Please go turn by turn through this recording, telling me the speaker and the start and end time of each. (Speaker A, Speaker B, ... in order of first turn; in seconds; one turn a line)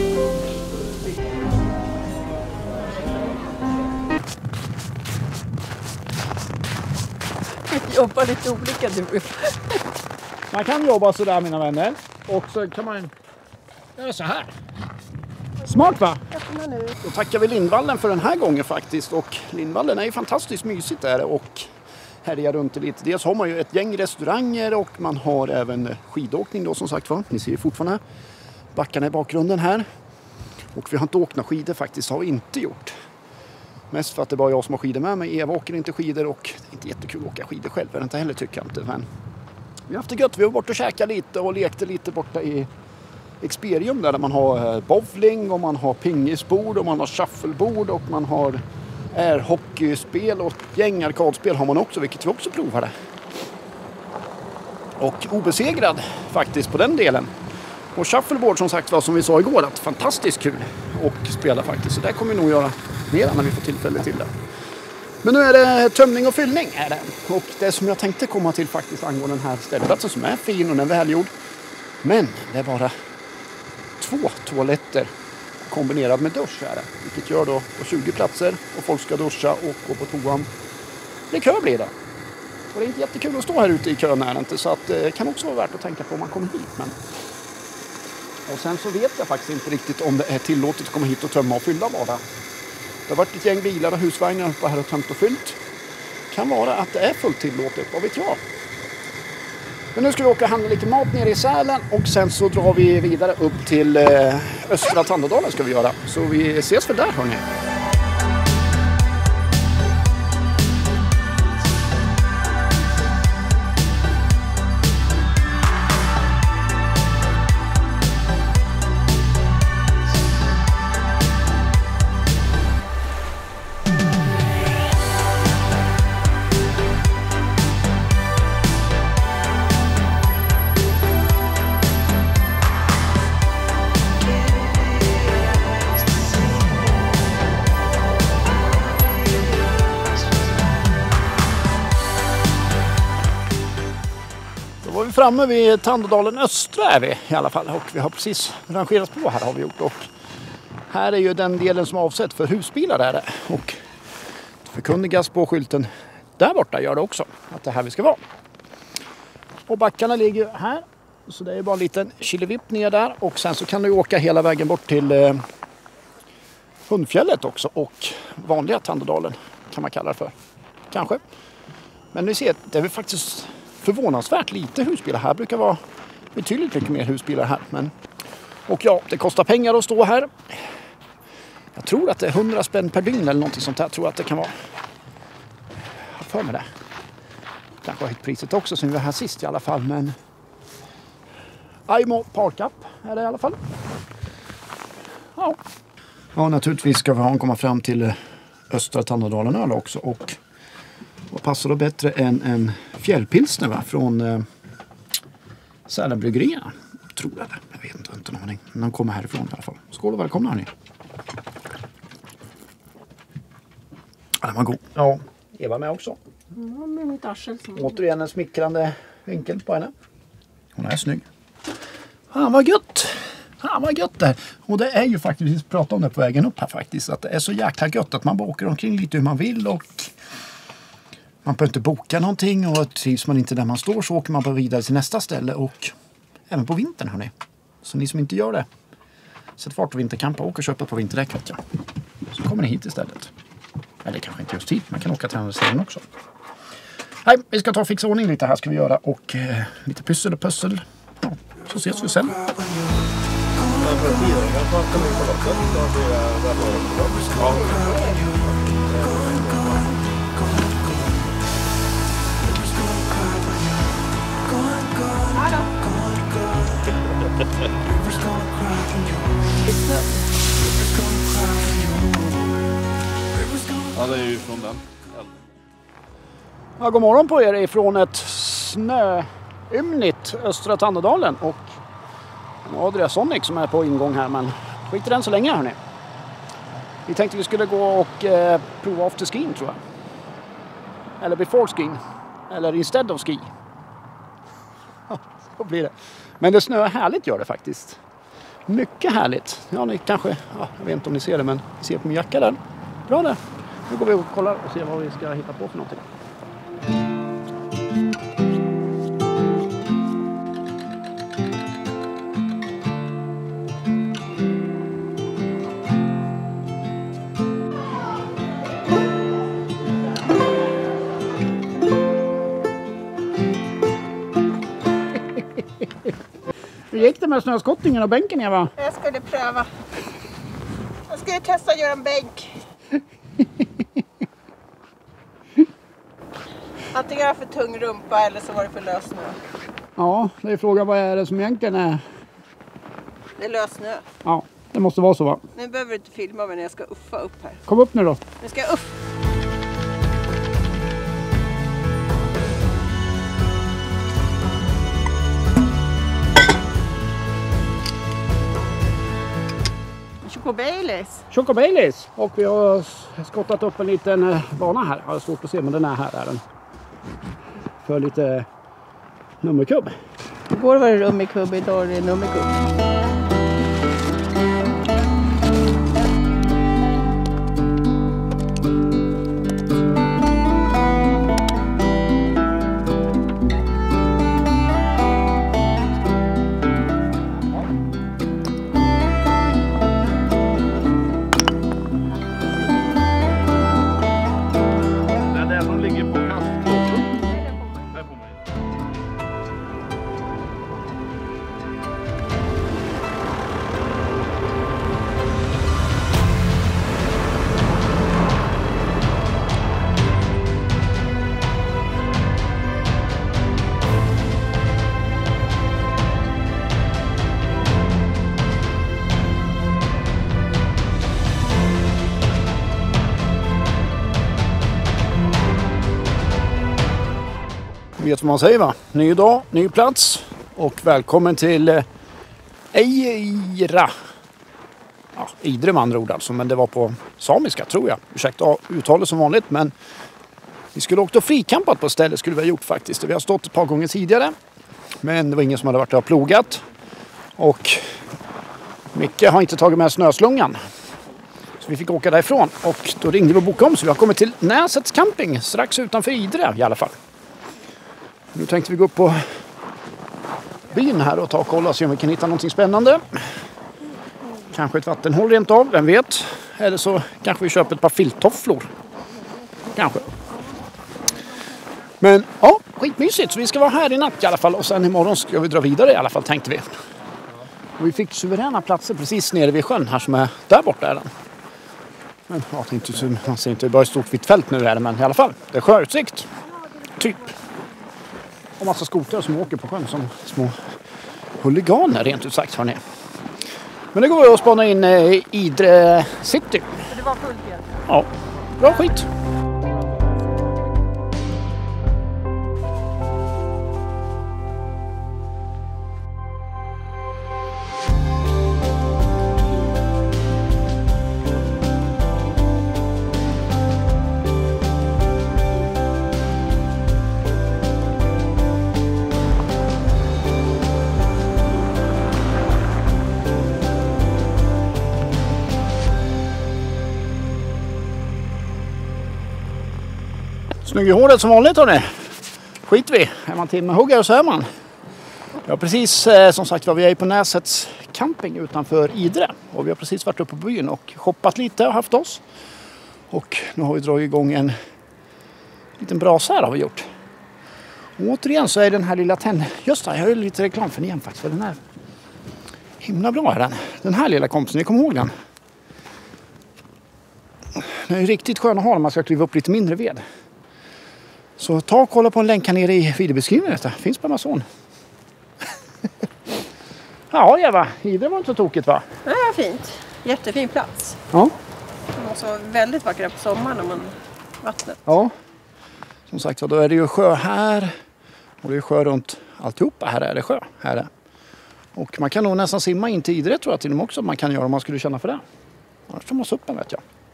Speaker A: 7.7-9.8
Speaker B: 10.5-13.1
Speaker B: 14.0-14.5
Speaker B: 15.6-16.2
Speaker A: 15.7-17.0
Speaker B: 17.0-21.7
Speaker B: 22.2-28.0
Speaker B: 28.7-29.9
Speaker B: 30.7-32.9
Speaker B: 33.9-39.1
Speaker B: 39.9-42.7
Speaker B: 43.4-48.6
Speaker B: 49.1-52.9
Speaker B: 55.0-57.3
Speaker B: 57.9-64.3
Speaker B: 65.2-71.3
Speaker B: 72.0-72.9
Speaker B: 74.0-75.1
Speaker B: 75.6-80.5
Speaker B: 81.3-81.9
Speaker B: 82.7-87.0
Speaker B: 88.5-92.2
Speaker B: 93.1-95.6
Speaker B: 96.3-98.4
Speaker B: 99.9-107.4
Speaker B: 144.8-150.1
Speaker B: 150.9-153.8
Speaker B: 154.6-158.2
Speaker B: 159.7-165.4
Speaker B: 166.9-170.3
Speaker B: 170.9-171.2
Speaker B: 172.1-175.8
Speaker B: 176.3-177.9
Speaker B: 178.7-180.7
Speaker B: 181.7-184.5
Speaker B: 186.0-186.7
Speaker B: 187.8-190.2
Speaker B: 191.9-193.6
Speaker B: 196.3-198.2
Speaker B: 198.7-200.4
Speaker B: 201.3-204.4
Speaker B: 205.9-210.7
Speaker B: 214.4-216.2
Speaker A: 216.5-218.0
Speaker B: 217.7-219.9
Speaker B: 220.7-221.2
Speaker B: 222.3-230.1
Speaker B: 231.4-235.9
Speaker B: 236.5-237.3
Speaker B: 237.8-238.7
Speaker B: 239.6-241.6
Speaker B: 242.3-243.3
Speaker B: 244.0-246.0
Speaker B: 247.2-252.4
Speaker C: 253.8-257.6
Speaker A: 257.3-258.4
Speaker C: 258.6-259.9
Speaker A: 265.2-265.9
Speaker B: 269.6-270.1
Speaker C: 273.9-274.8
Speaker B: 276.8-281.7
Speaker B: 282.6-285.8
Speaker B: 287.1-289.8
Speaker B: 291.2-293.5
Speaker B: 295.1-298.0
Speaker B: 298.7-306.0
Speaker B: 326.9-328.7
Speaker A: 328.8-329.7
Speaker A: 331.1-332.6
Speaker A: 336.9-339.4
Speaker B: 340.0-342.0
Speaker A: 343.4-344.0
Speaker B: 344.2-345.4
Speaker A: 345.5-347.6
Speaker B: 347.7-348.2
Speaker A: 348.4-349.0
Speaker A: 360.2-361.3
Speaker B: 361.3-366.4
Speaker B: 367.8-368.5
Speaker B: 369.4-369.9
Speaker A: 370.5-372.6
Speaker C: 395.3-397.0
Speaker A: 397.2-397.9
Speaker B: 428.0-431.9
Speaker B: 432.7-433.9
Speaker B: 435.1-439.7
Speaker B: 440.7-444.3
Speaker B: 445.0-446.6
Speaker B: 447.4-447.9
Speaker B: 448.9-450.6
Speaker B: 451.6-456.9
Speaker B: 458.3-459.2
Speaker B: 460.7-463.2
Speaker B: 464.5-468.7
Speaker B: 469.7-470.1
Speaker B: 472.0-476.7
Speaker B: 477.8-481.1
Speaker B: 482.3-486.3
Speaker B: 487.0-487.3
Speaker B: 488.6-490.6
Speaker B: 491.4-492.8
Speaker B: 493.9-496.8
Speaker A: 496.9-497.8
Speaker B: 497.9-499.1
Speaker B: 530.6-532.1
Speaker B: 532.6-534.5
Speaker B: 535.4-542.2
Speaker B: 543.1-544.5
Speaker B: 545.8-546.9
Speaker B: 548.0-551.6
Speaker B: 552.8-555.1
Speaker B: 557.5-560.0
Speaker B: 561.4-564.5
Speaker B: 567.1-568.9
Speaker A: 569.0-571.0
Speaker A: 571.9-574.8
Speaker B: 574.9-575.1
Speaker B: 576.1-577.7
Speaker B: 578.4-580.9
Speaker B: 581.7-585.2
Speaker B: 585.9-586.8